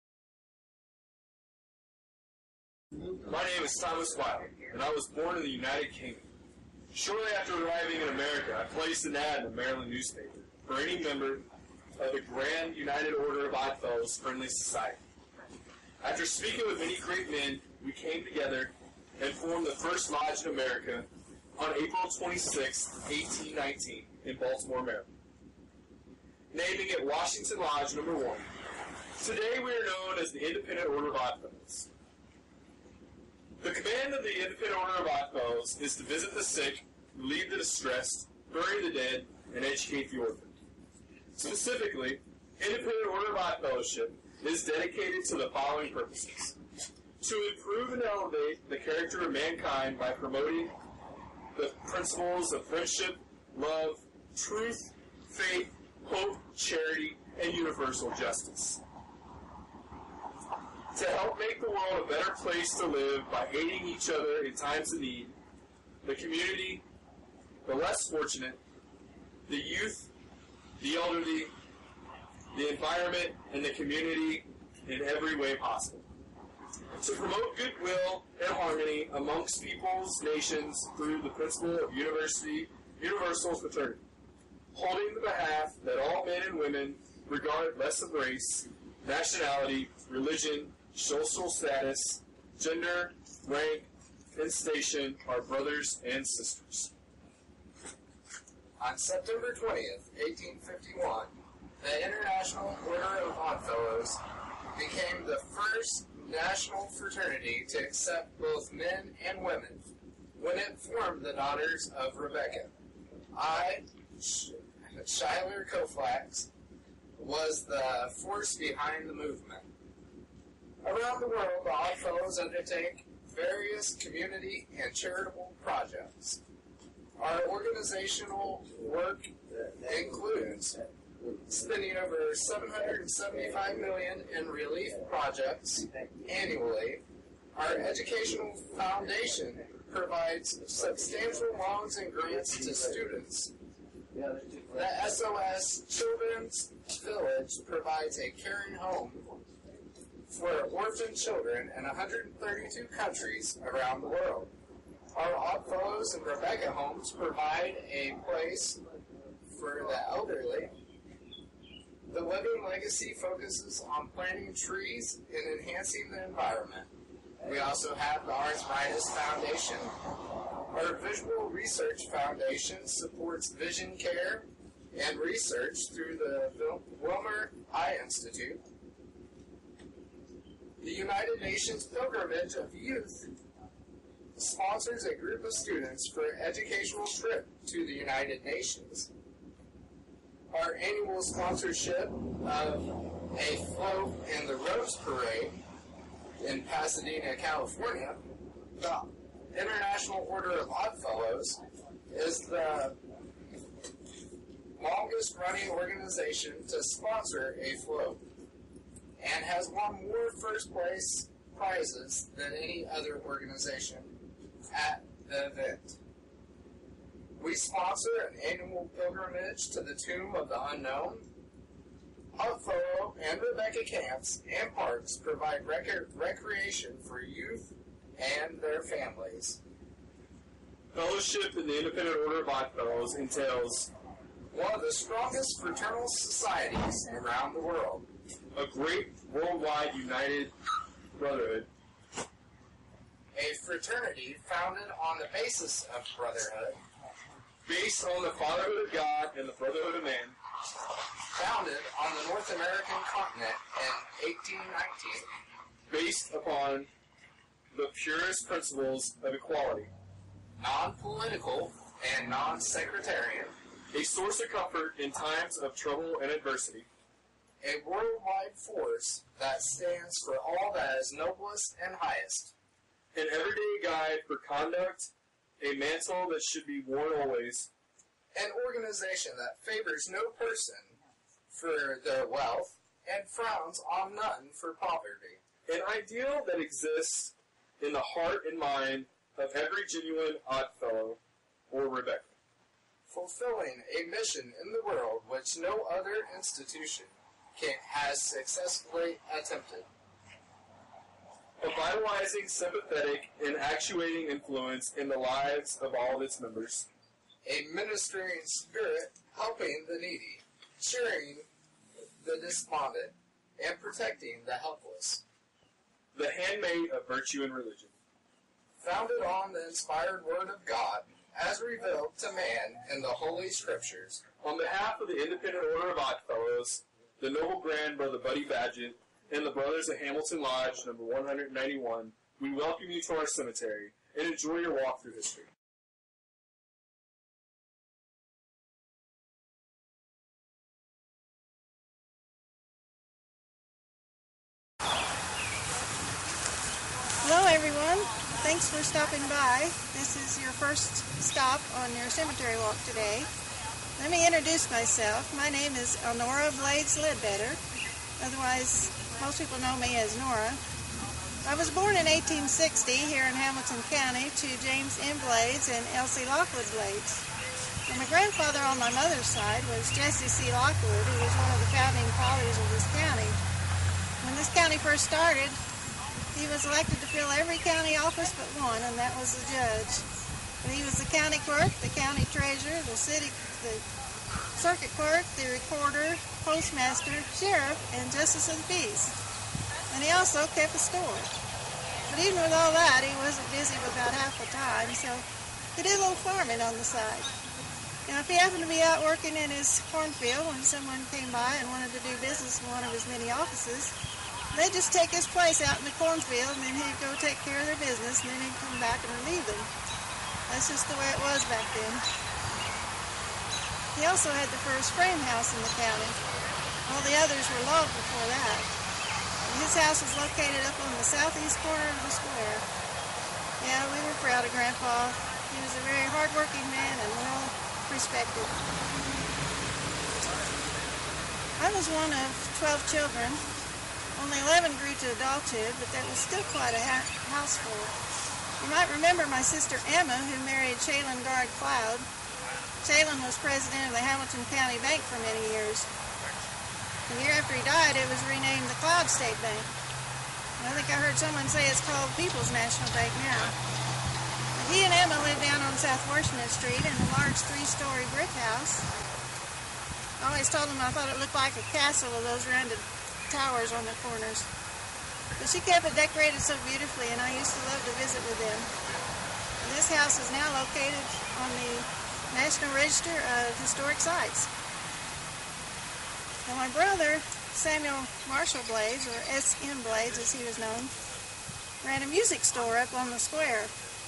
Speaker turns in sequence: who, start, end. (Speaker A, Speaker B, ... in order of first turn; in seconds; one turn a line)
Speaker A: 3.2-6.3
Speaker A: 6.9-15.0
Speaker A: 16.0-25.1
Speaker A: 26.5-28.5
Speaker A: 29.2-31.9
Speaker A: 33.6-40.5
Speaker A: 41.4-46.6
Speaker A: 47.2-50.8
Speaker A: 51.5-58.8
Speaker A: 60.9-65.4
Speaker A: 66.0-66.8
Speaker A: 67.7-68.6
Speaker A: 69.5-70.1
Speaker A: 70.8-71.5
Speaker A: 72.5-76.0
Speaker A: 77.0-84.0
Speaker A: 84.7-96.9
Speaker B: 98.8-104.2
Speaker B: 104.8-112.7
Speaker B: 113.3-116.5
Speaker B: 117.2-119.7
Speaker B: 120.8-126.4
Speaker B: 127.2-129.3
Speaker B: 129.8-130.8
Speaker B: 131.4-137.0
Speaker B: 137.6-143.5
Speaker B: 144.7-149.3
Speaker B: 150.3-154.5
Speaker B: 155.1-158.8
Speaker B: 159.5-160.7
Speaker B: 162.1-166.9
Speaker B: 167.4-169.9
Speaker B: 170.7-178.6
Speaker B: 180.8-183.3
Speaker B: 184.4-189.1
Speaker B: 190.5-195.6
Speaker B: 196.4-198.2
Speaker B: 198.8-201.6
Speaker B: 202.1-203.0
Speaker B: 204.8-208.2
Speaker B: 209.2-214.1
Speaker B: 214.7-216.0
Speaker B: 217.4-221.3
Speaker B: 222.4-229.6
Speaker A: 230.9-233.9
Speaker B: 234.5-238.1
Speaker A: 238.6-240.6
Speaker A: 241.2-241.7
Speaker B: 243.3-246.8
Speaker A: 247.7-250.4
Speaker B: 251.3-255.3
Speaker A: 255.9-256.9
Speaker A: 257.7-259.9
Speaker B: 260.6-263.6
Speaker A: 263.9-266.9
Speaker B: 267.6-272.5
Speaker A: 273.1-277.7
Speaker B: 278.3-281.0
Speaker B: 281.5-285.4
Speaker A: 285.6-292.4
Speaker B: 293.1-299.9
Speaker A: 301.6-306.9
Speaker B: 307.4-311.5
Speaker B: 312.2-315.2
Speaker A: 316.1-317.9
Speaker B: 318.8-324.3
Speaker A: 324.4-335.5
Speaker C: 347.2-353.3
Speaker C: 354.0-357.6
Speaker C: 358.2-360.6
Speaker C: 361.4-367.2
Speaker C: 367.9-373.4
Speaker C: 374.2-375.6
Speaker C: 376.3-380.1
Speaker C: 380.6-383.8
Speaker C: 384.6-389.1
Speaker C: 389.9-391.3
Speaker C: 392.1-397.3
Speaker C: 398.1-403.9
Speaker C: 404.5-409.7
Speaker C: 410.5-412.0
Speaker C: 413.9-416.2
Speaker C: 416.9-418.7
Speaker C: 419.5-422.6
Speaker C: 423.6-428.6
Speaker C: 431.6-433.4
Speaker C: 434.2-437.9
Speaker C: 438.6-442.1
Speaker C: 442.8-445.9
Speaker C: 447.1-449.7
Speaker C: 450.6-453.5
Speaker C: 454.6-458.9
Speaker C: 460.2-464.5
Speaker C: 465.4-468.7
Speaker C: 469.6-474.5
Speaker C: 476.5-480.9
Speaker C: 481.8-483.7